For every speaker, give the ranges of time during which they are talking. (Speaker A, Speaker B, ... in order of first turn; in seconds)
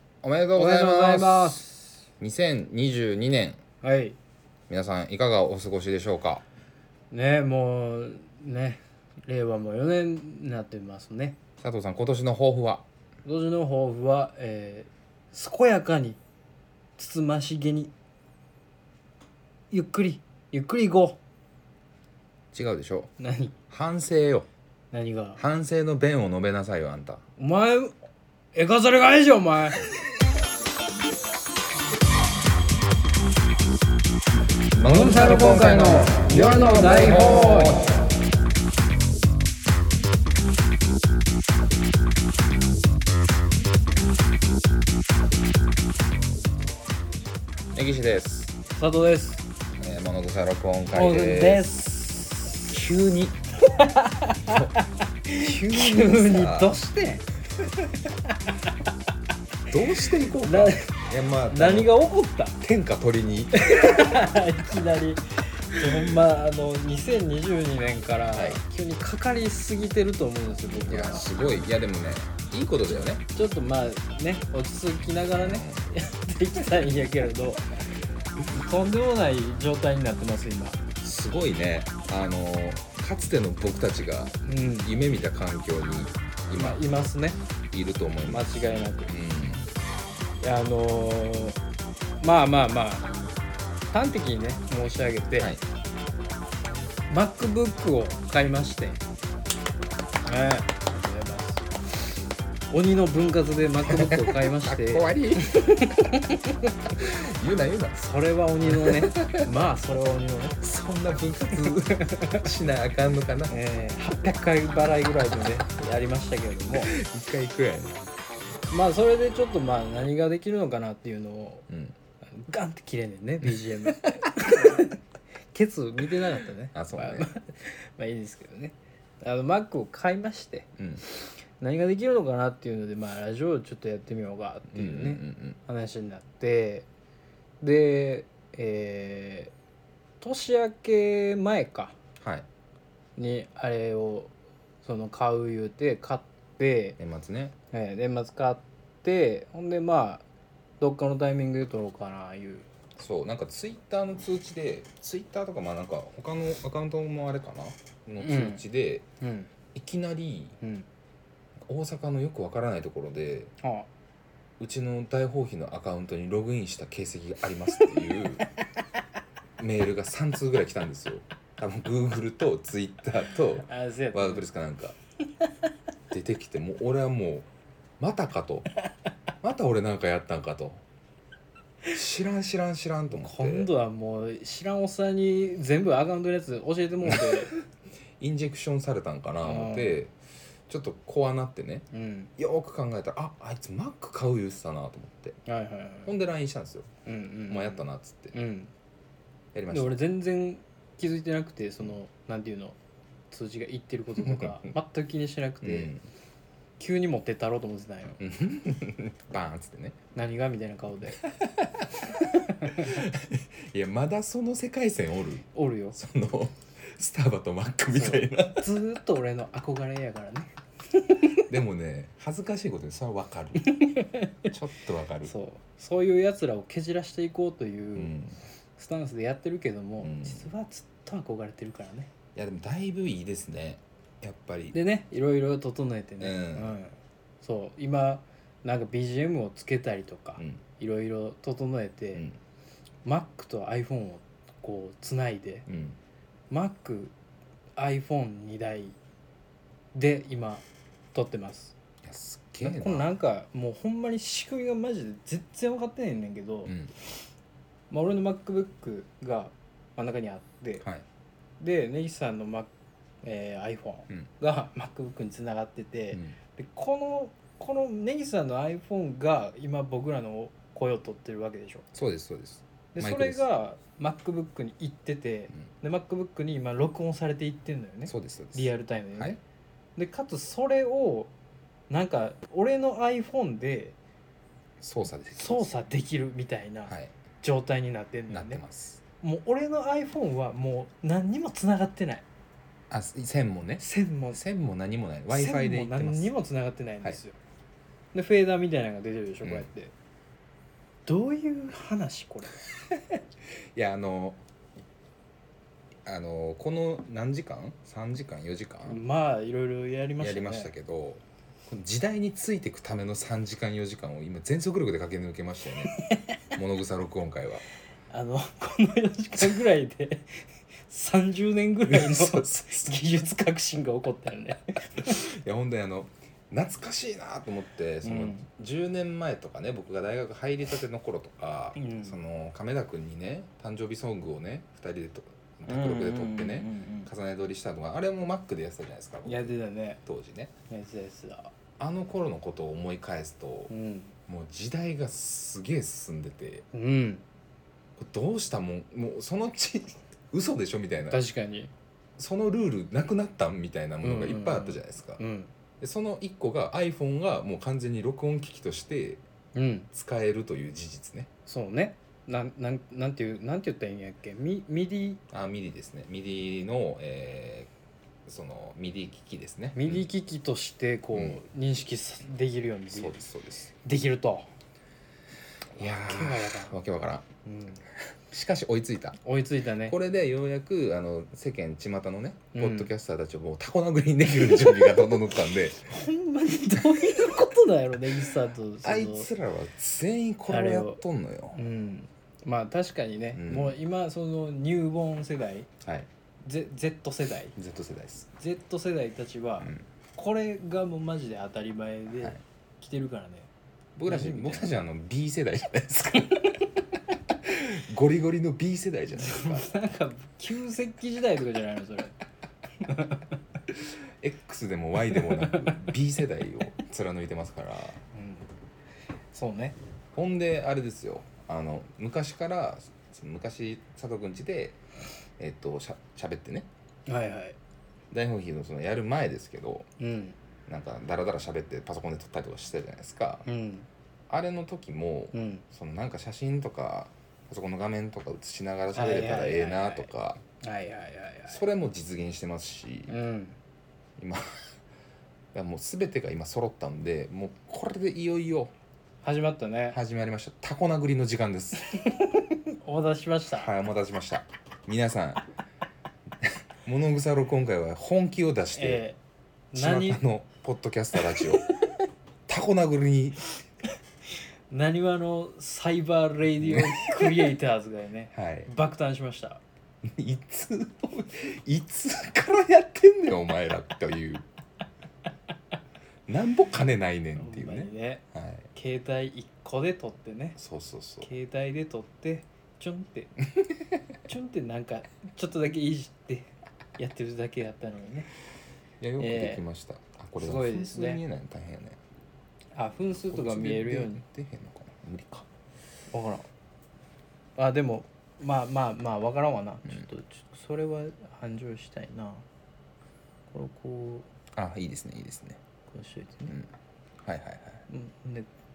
Speaker A: 0.2-1.6, 2.2-3.6, 4.7-6.4, 11.6-12.8, 22.5-23.1, 23.7-24.5, 25.4-27.2, 34.7-37.9, 47.7-48.5, 49.8-51.7, 52.7-53.4, 55.4-56.8, 59.7-61.9, 62.6-64.2, 68.3-68.6, 70.8-73.2, 75.4-75.9, 81.0-86.8, 87.7-89.7, 103.9-105.6, 107.0-108.1, 108.6-109.5, 110.6-113.5, 116.7-118.1, 121.7-121.9, 126.7-127.3, 130.8-131.0, 134.7-135.6, 142.2-142.4, 147.0-147.5, 153.0-159.0, 159.7-160.6, 161.7-163.5, 164.6-168.4, 169.6-175.0, 176.1-177.5, 178.0-178.7, 179.4-180.8, 181.9-183.7, 187.0-187.6, 188.2-190.1, 190.7-191.8, 192.4-195.4, 196.0-196.9, 197.5-198.4, 199.5-200.0, 204.3-204.6, 205.6-206.1, 208.2-209.9, 211.4-211.7, 212.6-218.7, 221.5-223.7, 224.5-225.3, 227.9-228.4, 230.0-230.5, 232.3-234.8, 236.2-236.8, 245.7-246.0, 252.0-253.1, 256.6-256.9, 266.1-266.4, 271.9-273.4, 278.1-279.4, 284.8-285.8, 286.9-287.1, 288.3-289.0, 292.9-296.3, 299.4-299.7, 303.7-304.4, 306.1-309.0, 310.2-315.9, 316.6-317.6, 321.8-323.1, 325.0-340.5, 341.8-343.7, 344.3-346.6, 348.0-351.2, 352.2-355.2, 355.8-359.2, 359.9-361.3, 365.3-367.7, 368.2-370.1, 371.1-371.4, 372.9-373.7, 375.8-377.2, 378.3-379.2, 379.8-385.9, 388.8-391.6, 393.3-393.8, 395.8-396.1, 397.6-398.3, 404.0-406.5, 407.4-409.7, 413.7-418.0, 420.1-424.8, 425.4-426.7, 428.1-429.9, 430.7-433.4, 434.3-440.4, 441.5-443.2, 445.5-448.7, 449.9-451.9, 453.5-455.4, 456.4-459.0, 459.7-461.6, 462.5-463.5, 466.6-467.5, 468.3-468.7, 470.1-474.4, 476.3-478.7, 480.6-481.3, 489.0-492.0, 493.3-495.5, 504.5-505.6, 507.2-507.8
Speaker B: 0.5-2.0, 3.8-4.2, 7.1-11.4, 13.2-16.2, 17.0-17.9, 19.7-21.2, 23.2-23.5, 24.9-25.4, 27.4-27.9, 28.5-29.8, 34.8-37.9, 48.7-49.4, 50.9-52.7, 53.6-57.2, 58.2-58.7, 60.4-62.6, 63.6-71.4, 73.3-77.6, 78.5-80.8, 84.4-84.9, 86.5-87.4, 88.3-89.1, 90.4-91.6, 92.2-93.1, 93.9-95.5, 97.1-99.0, 100.2-101.7, 102.7-106.7, 108.0-110.6, 111.6-112.4, 113.5-116.9, 118.7-121.6, 122.3-125.0, 125.5-136.9, 137.6-139.5, 140.2-141.9, 143.2-144.3, 144.8-147.0, 147.7-150.2, 150.8-152.7, 158.2-158.6, 159.2-159.5, 160.6-160.8, 163.6-163.9, 173.6-174.5, 183.1-187.5, 189.4-190.0, 191.9-192.3, 195.4-196.1, 197.1-198.7, 199.7-202.8, 203.3-205.9, 206.8-208.2, 210.1-211.2, 212.2-213.0, 215.5-216.0, 217.9-221.4, 223.6-224.5, 225.2-228.1, 228.8-232.1, 234.7-242.2, 243.0-245.6, 246.5-247.1, 247.8-248.9, 249.9-251.7, 252.6-256.7, 257.9-260.8, 261.6-262.7, 263.2-271.8, 272.9-279.4, 280.0-281.3, 281.9-283.9, 285.3-288.6, 289.2-292.2, 293.8-294.4, 295.3-297.4, 298.1-299.9, 301.1-302.6, 308.9-310.7, 318.1-325.2, 328.0-328.4, 331.7-332.2, 335.6-337.1, 339.2-340.0, 340.7-341.5, 343.7-344.1, 346.7-347.2, 351.1-351.7, 354.0-355.5, 359.5-359.9, 361.5-365.2, 369.7-373.2, 373.8-374.5, 375.8-376.8, 377.4-377.8, 379.2-380.0, 382.5-382.9, 384.4-385.1, 385.8-389.3, 390.5-391.0, 391.5-395.7, 396.4-397.5, 398.4-403.5, 404.1-404.7, 409.2-412.1, 412.8-413.3, 415.1-415.8, 418.1-418.5, 419.3-419.8, 427.1-427.6, 430.0-430.4, 433.4-433.9, 435.3-435.6, 438.9-441.6, 443.1-443.6, 449.2-450.0, 451.9-453.7, 458.7-459.2, 459.7-460.2, 464.7-469.6, 477.4-478.2, 478.7-480.6, 481.2-483.3, 484.2-488.3, 489.2-489.6, 490.4-491.2, 492.7-494.2, 496.1-496.5, 497.6-502.4, 503.5-504.3, 505.9-506.5, 507.9-508.5